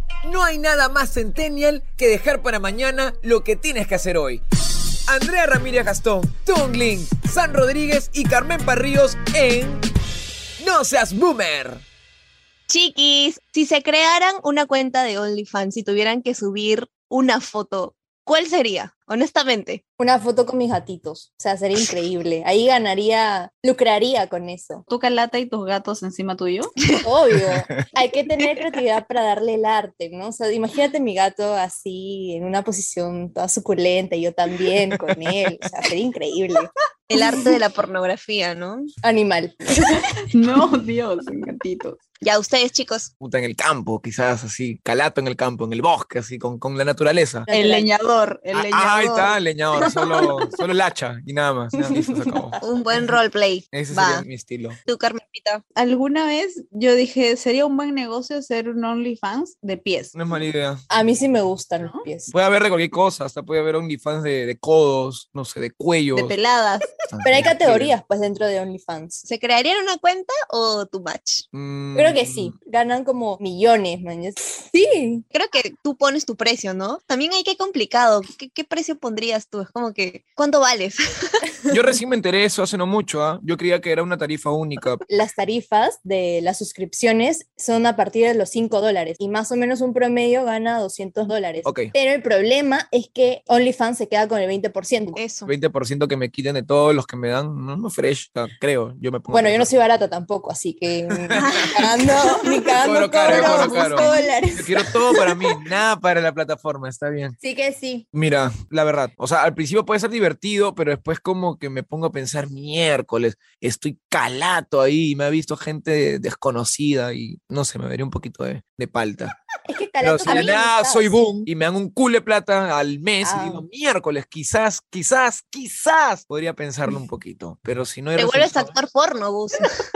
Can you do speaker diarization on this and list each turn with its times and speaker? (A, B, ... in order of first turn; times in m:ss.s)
0:00.2-0:04.4 A
0:05.1-0:09.8 A
0:10.6-0:11.8 A
0:12.7-0:19.8 B
0:20.0-0:24.8 C
0:24.9-0:26.8 D
0:27.0-0:36.7 C
0:34.9-0:35.2 A
0:37.1-0:38.9 B
0:39.0-0:39.6 C
0:39.8-0:42.0 D
0:42.2-0:43.1 B
0:43.2-0:47.5 A
0:47.5-0:47.9 C
0:47.5-0:50.4 D
0:48.5-0:52.6 A
0:51.8-0:52.6 C
0:52.6-0:54.3 B
0:53.7-0:54.8 A
0:54.8-0:55.6 B
0:55.8-1:00.2 D
1:00.2-1:00.8 A
1:00.9-1:02.3 C
1:01.8-1:02.0 D
1:02.3-1:06.4 A
1:06.1-1:06.9 D
1:07.1-1:08.0 A
1:07.2-1:09.2 C
1:09.3-1:11.4 B
1:11.5-1:12.5 A
1:12.0-1:15.2 C
1:15.3-1:21.4 B
1:21.7-1:25.0 A
1:25.1-1:35.2 C
1:31.6-1:31.9 A
1:35.2-1:35.5 B
1:35.5-1:39.7 A
1:39.3-1:45.6 C
1:41.1-1:41.6 A
1:41.4-1:42.7 B
1:42.8-1:47.4 A
1:43.2-1:44.3 B
1:47.4-1:48.0 C
1:48.1-1:59.3 A
1:59.7-2:01.3 C
2:00.0-2:08.7 A
2:00.3-2:00.6 B
2:03.2-2:03.6 C
2:08.2-2:09.7 B